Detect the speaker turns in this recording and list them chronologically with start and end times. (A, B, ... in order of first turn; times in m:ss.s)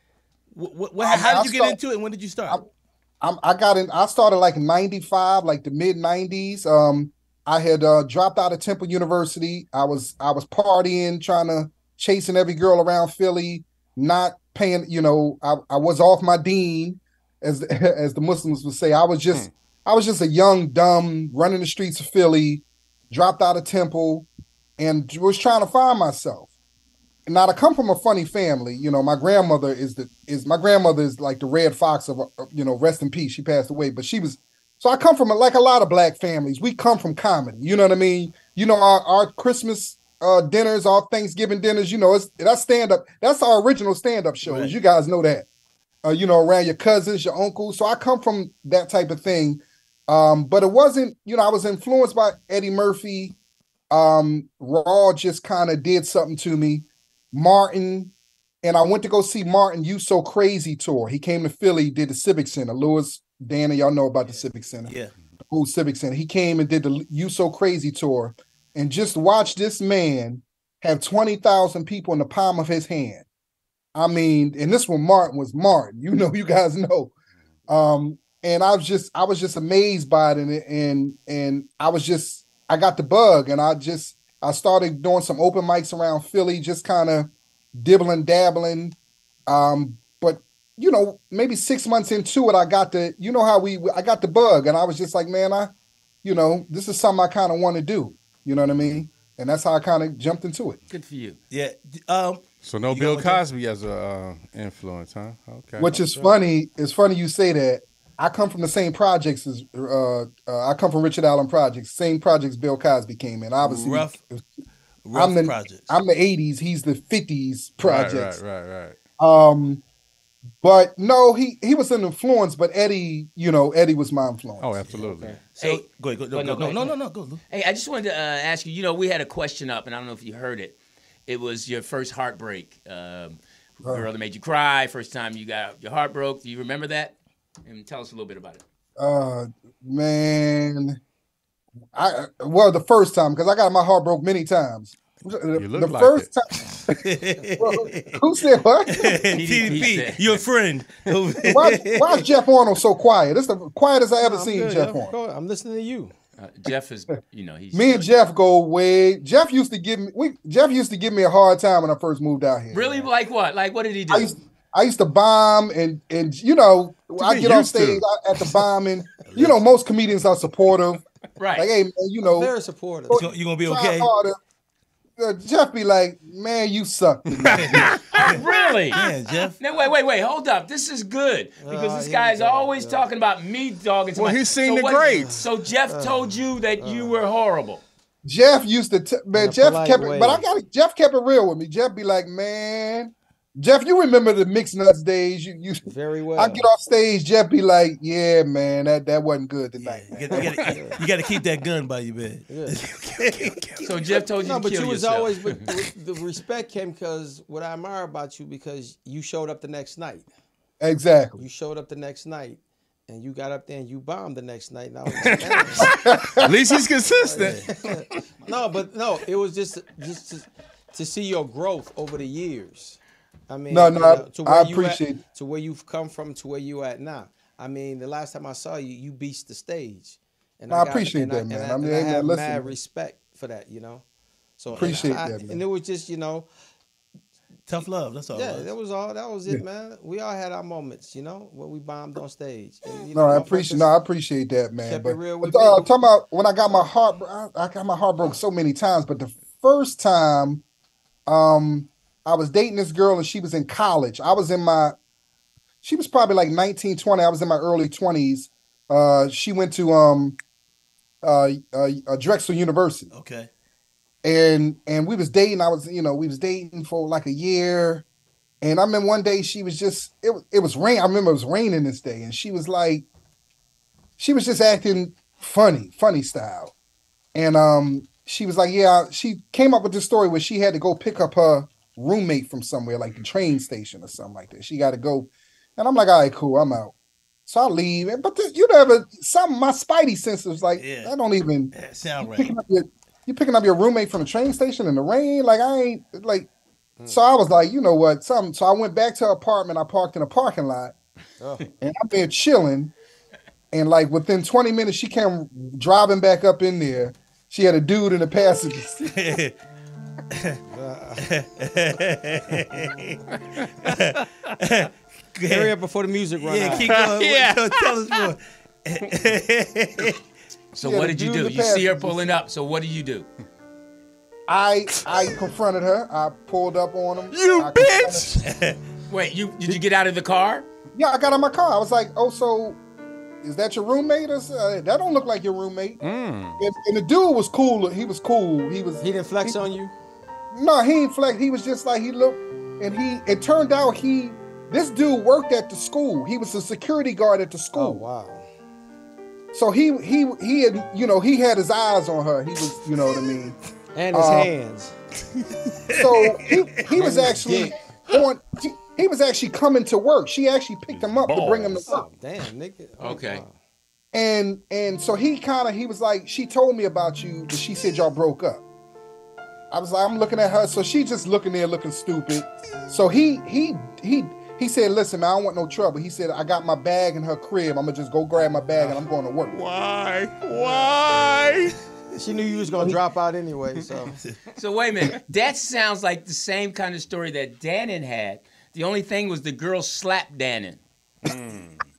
0:00.5-0:02.6 A
0:01.0-0:01.8 B
0:03.2-0:24.3 B
0:24.8-0:26.5 B
0:27.3-0:45.4 B
0:44.4-0:44.7 A
0:46.0-0:53.4 B
0:53.9-0:58.1 B
0:58.6-1:05.0 B
1:04.9-1:05.1 A
1:05.5-1:13.3 B
1:13.9-1:17.1 B
1:17.7-1:29.0 B
1:29.5-1:35.7 B
1:36.2-1:40.8 B
1:40.9-1:41.4 C
1:41.5-1:43.4 A
1:42.6-1:45.9 D
1:45.8-1:54.4 B
1:45.9-1:46.4 E
1:53.6-1:54.2 A
1:55.0-1:55.9 A
1:55.1-1:58.4 B
1:57.8-1:59.0 D
1:59.2-1:59.8 B
2:00.6-2:04.8 B
2:04.6-2:05.4 D
2:05.0-2:05.4 E
2:05.6-2:07.4 A
2:05.6-2:07.0 C
2:07.5-2:18.6 C
2:19.0-2:21.0 B
2:21.9-2:27.0 B
2:25.6-2:26.3 D
2:26.7-2:28.1 A
2:27.6-2:29.2 B
2:28.9-2:32.3 A
2:29.3-2:30.4 C
2:31.4-2:35.2 B
2:34.2-2:36.1 E
2:36.4-2:38.1 C
2:37.7-2:43.1 B
2:42.7-2:44.3 C
2:44.1-2:51.0 B
2:47.2-2:48.0 D
2:49.3-2:49.6 A
2:51.4-2:51.7 C
2:51.6-2:52.5 B
2:52.2-2:53.2 E
2:53.1-2:54.4 B
2:53.1-2:54.1 A
2:55.2-2:57.9 B
2:57.4-2:57.8 D
2:57.5-2:58.4 A
2:58.1-2:59.0 C
2:58.9-2:59.6 A
2:59.6-3:07.8 C
3:01.6-3:03.1 E
3:04.1-3:05.4 D
3:05.0-3:07.2 E
3:08.2-3:20.4 B
3:09.3-3:10.4 E
3:15.9-3:16.7 E
3:19.9-3:21.0 E
3:20.1-3:24.2 A
3:22.5-3:22.8 E
3:23.8-3:25.4 C
3:24.4-3:30.3 E
3:30.8-3:31.4 B
3:31.4-3:35.9 E
3:35.3-3:35.8 A
3:35.8-3:37.6 D
3:35.9-3:36.5 B
3:37.2-3:43.0 E
3:37.4-3:37.7 A
3:43.5-3:54.0 E
3:43.7-3:45.2 B
3:50.7-3:52.8 B
3:54.6-3:56.5 E
3:54.7-3:55.6 B
3:57.7-3:58.7 A
3:58.3-4:03.9 E
4:03.1-4:10.6 B
4:04.8-4:05.9 E
4:11.3-4:14.9 B
4:15.8-4:20.4 B
4:21.2-4:23.1 B
4:23.1-4:23.5 A
4:24.2-4:28.0 B
4:28.6-4:33.0 B
4:34.2-4:36.7 B
4:37.3-4:46.9 B
4:47.5-4:56.5 B
4:50.8-4:51.1 A
4:51.7-4:52.5 A
4:57.0-4:57.3 E
4:57.1-5:00.9 B
5:01.4-5:01.7 E
5:01.8-5:02.9 B
5:03.7-5:09.1 B
5:09.0-5:09.6 A
5:10.3-5:10.6 A
5:10.7-5:11.3 E
5:11.2-5:13.2 A
5:13.8-5:15.7 A
5:15.5-5:17.0 E
5:16.4-5:20.2 A
5:16.7-5:17.9 D
5:20.7-5:22.4 B
5:20.8-5:23.3 C
5:24.5-5:28.4 B
5:27.3-5:28.4 D
5:28.4-5:28.8 A
5:29.1-5:30.7 C
5:30.9-5:32.8 B
5:33.4-5:36.0 B
5:36.0-5:36.6 D
5:36.6-5:39.7 B
5:39.0-5:39.9 E
5:40.5-5:48.0 B
5:47.7-5:48.5 E
5:49.5-5:53.6 B
5:53.9-5:54.9 E
5:54.1-5:54.5 B
5:55.8-5:56.9 A
5:55.9-6:02.1 B
5:56.8-5:57.8 E
6:01.0-6:01.8 D
6:01.3-6:01.8 C
6:01.8-6:03.6 E
6:03.0-6:03.4 C
6:04.1-6:08.6 B
6:09.7-6:19.6 B
6:19.5-6:21.7 D
6:22.2-6:24.2 E
6:22.8-6:23.0 B
6:24.6-6:30.8 C
6:31.2-6:31.8 D